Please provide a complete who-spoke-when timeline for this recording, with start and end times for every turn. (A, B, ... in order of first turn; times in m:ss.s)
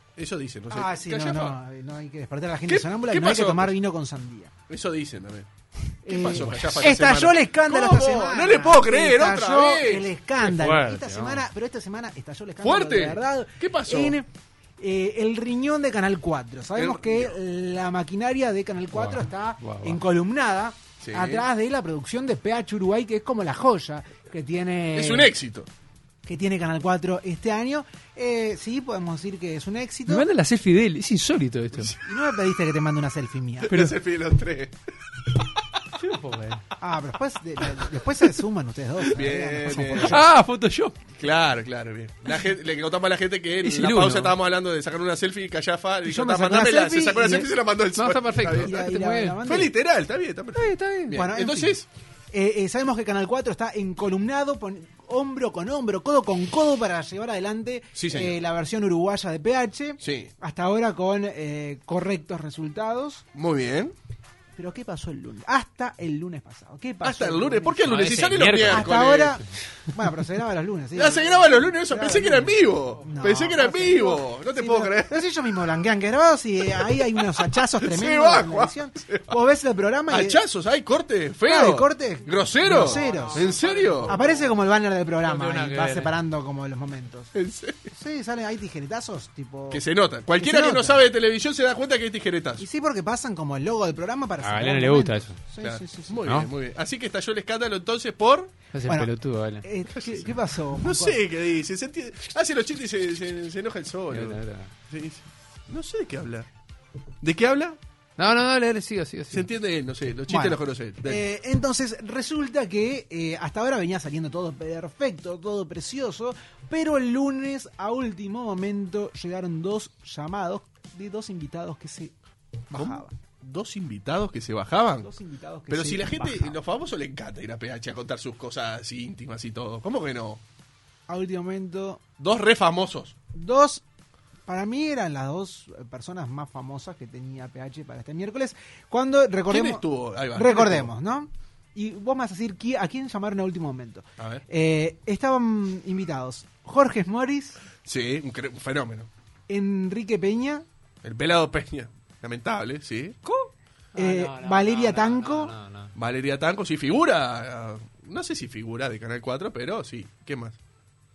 0:00.2-0:01.6 A
0:00.7-0:04.5 B
0:02.7-0:03.7 A
0:04.7-0:05.5 A
0:06.0-0:10.1 A
0:06.0-0:25.3 B
0:06.4-0:06.8 C
0:10.4-0:11.4 C
0:12.6-0:14.2 A
0:16.8-0:17.4 A
0:18.9-0:20.0 C
0:21.0-0:21.4 A
0:25.0-0:25.7 A
0:26.3-0:30.3 B
0:30.1-0:31.9 C
0:32.0-0:34.0 B
0:33.6-0:34.8 A
0:36.0-0:36.6 C
0:36.8-0:40.3 B
0:39.1-0:40.2 A
0:40.0-0:41.0 C
0:41.2-0:48.8 A
0:43.6-0:44.3 C
0:46.0-0:47.5 B
0:48.0-0:49.4 C
0:48.6-0:49.7 B
0:49.4-0:51.9 A
0:50.6-0:51.2 C
0:51.1-0:51.8 B
0:52.3-1:03.2 B
0:58.0-0:58.4 A
1:00.0-1:00.3 A
1:03.3-1:03.9 A
1:04.6-1:08.1 B
1:07.0-1:09.4 A
1:07.8-1:08.9 C
1:08.6-1:20.4 B
1:11.0-1:15.2 A
1:17.6-1:19.4 A
1:20.1-1:24.2 A
1:21.5-1:27.3 B
1:22.8-1:24.5 C
1:25.2-1:26.1 C
1:27.3-1:27.9 A
1:27.9-1:29.8 B
1:29.7-1:32.6 A
1:30.4-1:31.0 B
1:32.6-1:36.3 B
1:34.4-1:35.4 C
1:35.6-1:38.5 A
1:36.2-1:36.5 C
1:38.7-1:39.6 C
1:38.8-1:39.1 B
1:39.6-1:41.2 B
1:39.9-1:46.5 A
1:44.1-1:44.7 C
1:47.2-1:47.8 A
1:48.2-1:49.5 C
1:49.3-1:51.2 A
1:50.3-2:02.1 B
2:02.7-2:03.1 B
2:02.7-2:05.1 A
2:05.0-2:06.6 B
2:05.7-2:10.4 A
2:11.1-2:12.0 B
2:12.2-2:13.2 A
2:13.3-2:13.8 B
2:14.5-2:27.6 B
2:19.5-2:20.9 A
2:24.2-2:24.4 A
2:27.8-2:29.1 A
2:29.5-2:30.7 B
2:31.0-2:33.2 A
2:33.2-2:35.9 C
2:34.0-2:35.5 B
2:36.0-2:40.6 A